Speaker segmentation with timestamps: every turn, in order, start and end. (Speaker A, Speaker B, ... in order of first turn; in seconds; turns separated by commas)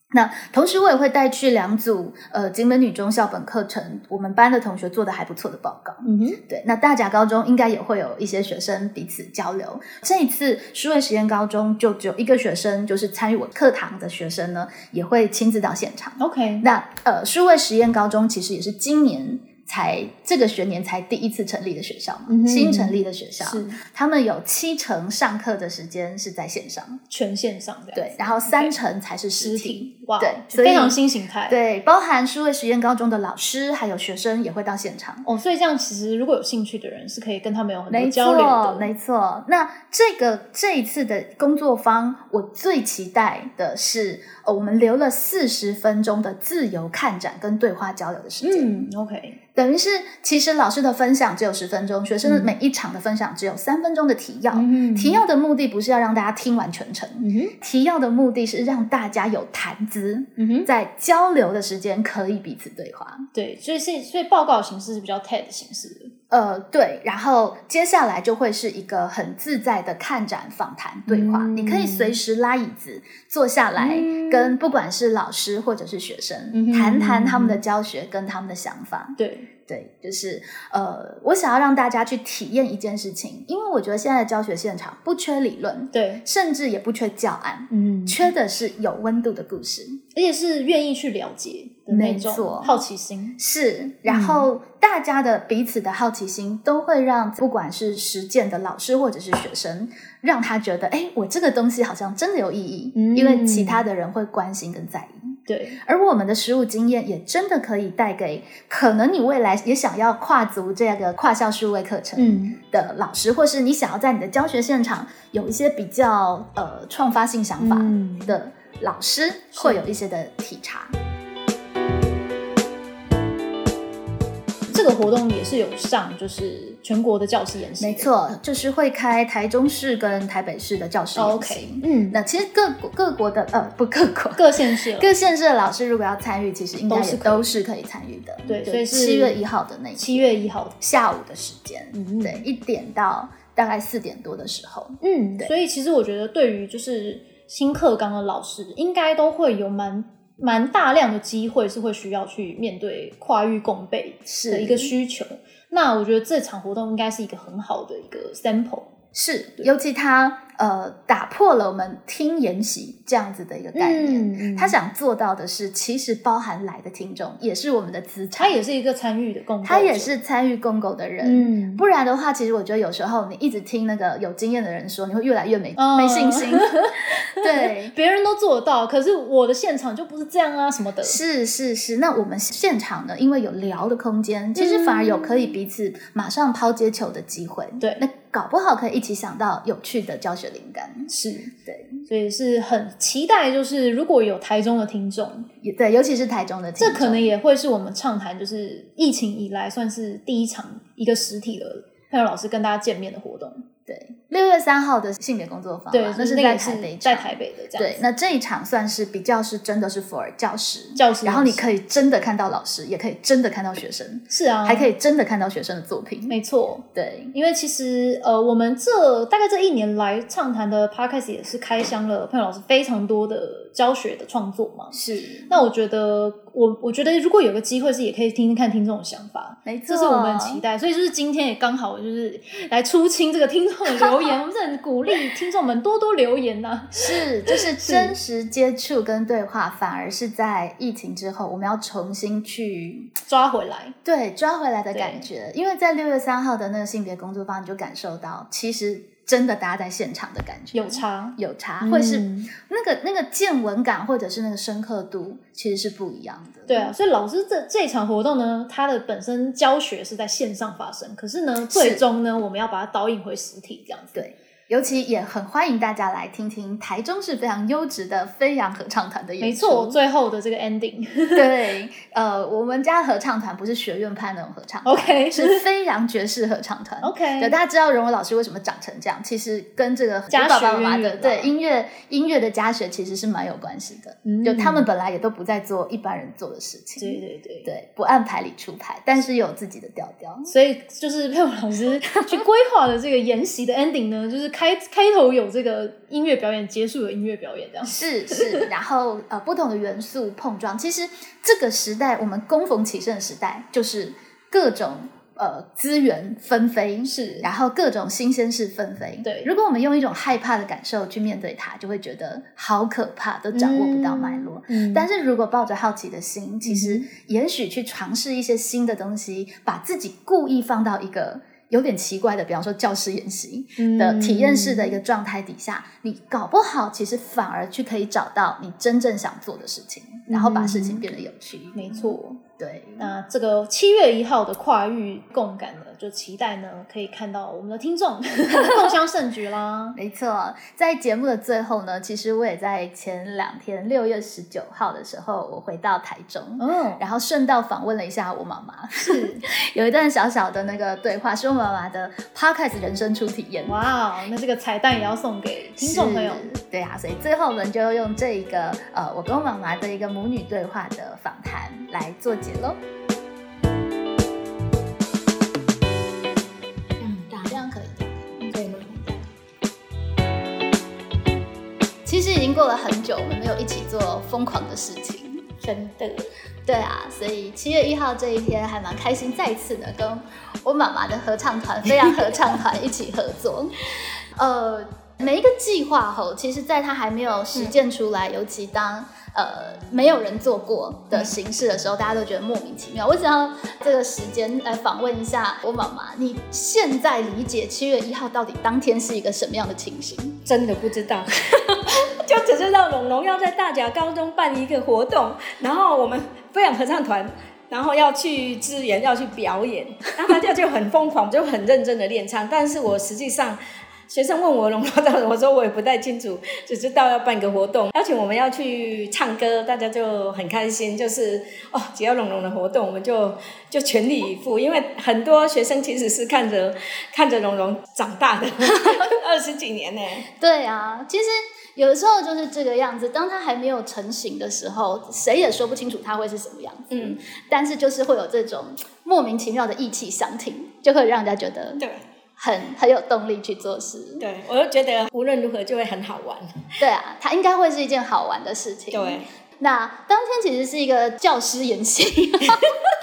Speaker A: 0.1-27.0, Speaker B: 6.0-6.4, Speaker B: 16.2-16.7, Speaker B: 22.3-23.8, Speaker B: 27.1-28.8, Speaker A: 27.9-35.3, Speaker B: 29.4-31.6, Speaker B: 35.2-38.9, Speaker A: 37.9-48.8, Speaker B: 48.4-49.4, Speaker A: 49.5-63.3, Speaker B: 52.2-52.5, Speaker B: 54.5-55.2, Speaker B: 57.2-57.5, Speaker B: 60.4-60.7, Speaker B: 63.3-66.1, Speaker A: 66.3-90.0, Speaker B: 71.1-72.2, Speaker B: 73.8-74.6, Speaker B: 76.5-77.6, Speaker B: 79.2-79.5, Speaker B: 85.9-86.2, Speaker B: 87.7-88.3, Speaker B: 90.2-93.4, Speaker A: 91.9-92.8, Speaker A: 93.4-105.2, Speaker B: 94.1-94.5, Speaker B: 103.0-103.8, Speaker B: 105.5-105.8, Speaker A: 105.8-120.9, Speaker B: 112.2-112.6, Speaker B: 117.6-118.3, Speaker B: 119.5-119.8, Speaker B: 124.7-128.1, Speaker A: 127.8-134.5, Speaker B: 131.2-132.2, Speaker B: 134.4-135.1, Speaker A: 135.0-145.5, Speaker B: 136.9-137.5, Speaker B: 138.5-139.4, Speaker B: 140.0-140.8, Speaker B: 141.9-142.4, Speaker B: 145.0-158.9, Speaker A: 154.3-154.9, Speaker A: 159.1-168.6, Speaker B: 163.8-164.8, Speaker B: 168.4-170.1, Speaker A: 169.6-177.9, Speaker B: 171.2-171.8, Speaker B: 175.8-181.2, Speaker A: 181.0-191.1, Speaker B: 184.6-185.6, Speaker B: 191.1-191.5, Speaker A: 191.7-192.0, Speaker B: 192.1-195.5, Speaker A: 195.6-197.3, Speaker B: 196.8-203.7, Speaker A: 203.9-216.4, Speaker B: 205.9-208.0, Speaker B: 211.0-211.7, Speaker B: 214.3-214.9, Speaker B: 216.3-225.0, Speaker A: 216.9-217.3, Speaker A: 224.9-225.6, Speaker B: 225.5-238.2, Speaker A: 229.7-230.6, Speaker A: 233.9-234.3, Speaker A: 237.0-243.1, Speaker B: 243.3-244.0, Speaker A: 244.1-256.9, Speaker B: 244.9-245.3, Speaker B: 250.7-252.5, Speaker B: 256.7-264.2, Speaker A: 261.7-262.0, Speaker A: 264.2-270.0, Speaker B: 269.4-271.6, Speaker A: 271.3-290.5, Speaker B: 274.9-275.6, Speaker B: 277.0-277.6, Speaker B: 280.3-281.5, Speaker B: 284.3-284.9, Speaker B: 287.0-287.7, Speaker B: 290.5-298.7, Speaker A: 297.9-333.1, Speaker B: 307.1-307.5, Speaker B: 309.2-309.5, Speaker B: 313.5-315.1, Speaker B: 316.6-317.1, Speaker B: 323.8-325.0, Speaker B: 330.3-331.1, Speaker B: 331.7-332.4, Speaker B: 333.0-340.0, Speaker A: 339.9-353.8, Speaker B: 346.6-347.0, Speaker B: 349.0-349.4, Speaker B: 353.7-356.5, Speaker A: 355.8-362.8, Speaker C: 367.0-367.6, Speaker A: 367.4-369.2, Speaker C: 368.5-369.0, Speaker A: 372.1-375.5, Speaker C: 375.6-376.3, Speaker A: 376.7-383.8, Speaker A: 384.4-400.4, Speaker C: 400.5-430.3, Speaker A: 430.4-441.8, Speaker C: 436.9-437.2, Speaker A: 442.4-444.2, Speaker C: 444.2-446.7, Speaker A: 446.8-452.7, Speaker C: 448.9-449.3